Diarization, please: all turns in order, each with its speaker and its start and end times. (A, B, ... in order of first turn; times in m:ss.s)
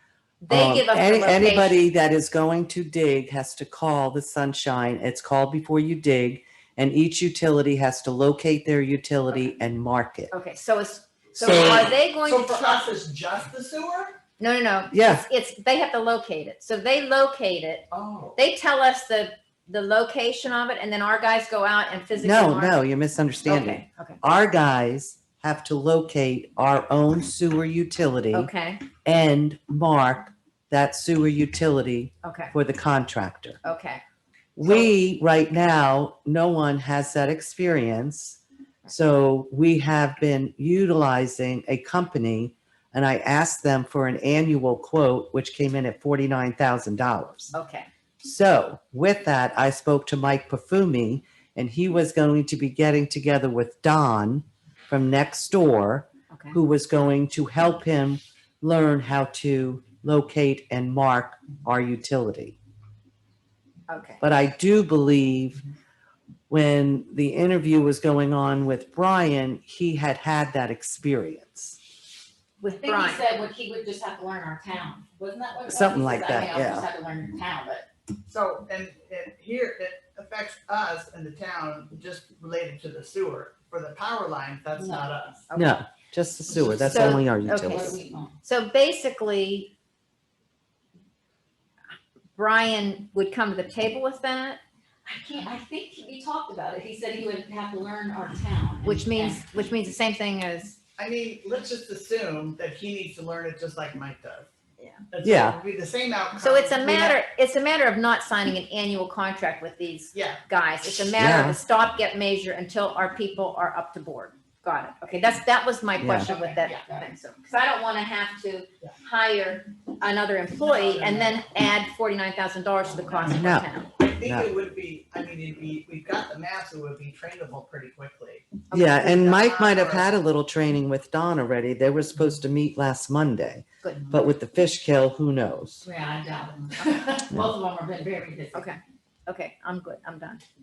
0:00.4-0:01.8 A
0:00.5-0:10.3 B
0:10.3-0:12.9 A
0:11.3-0:14.2 C
0:11.4-0:11.9 B
0:14.4-0:22.8 A
0:14.9-0:15.2 B
0:17.9-0:18.4 C
0:22.2-0:28.5 B
0:23.4-0:24.2 A
0:28.3-0:28.9 A
0:29.0-0:33.6 B
0:32.2-0:32.5 A
0:33.6-0:34.0 A
0:34.6-0:47.5 B
0:47.5-0:47.9 A
0:48.2-1:02.6 B
0:56.3-0:56.6 A
1:03.9-1:04.2 A
1:04.2-1:05.6 B
1:06.5-1:11.8 B
1:12.6-1:13.2 A
1:12.8-1:17.9 D
1:15.6-1:16.9 B
1:18.3-1:25.5 C
1:24.8-1:25.1 D
1:25.5-1:25.8 A
1:25.5-1:28.0 B
1:26.5-1:26.8 C
1:26.8-1:29.7 A
1:27.5-1:28.4 D
1:32.4-1:34.6 A
1:35.0-1:39.4 D
1:38.8-1:40.8 A
1:41.0-1:44.5 C
1:44.8-1:45.0 A
1:45.1-1:47.2 C
1:45.2-1:45.6 B
1:46.4-2:03.9 A
1:50.1-1:50.4 C
1:51.2-1:51.6 B
1:56.0-1:56.3 B
1:56.2-1:57.1 D
2:00.6-2:01.4 C
2:03.2-2:03.7 B
2:04.0-2:10.1 C
2:04.2-2:04.5 B
2:08.7-2:15.8 B
2:13.8-2:14.1 A
2:15.8-2:18.7 D
2:18.5-2:20.4 A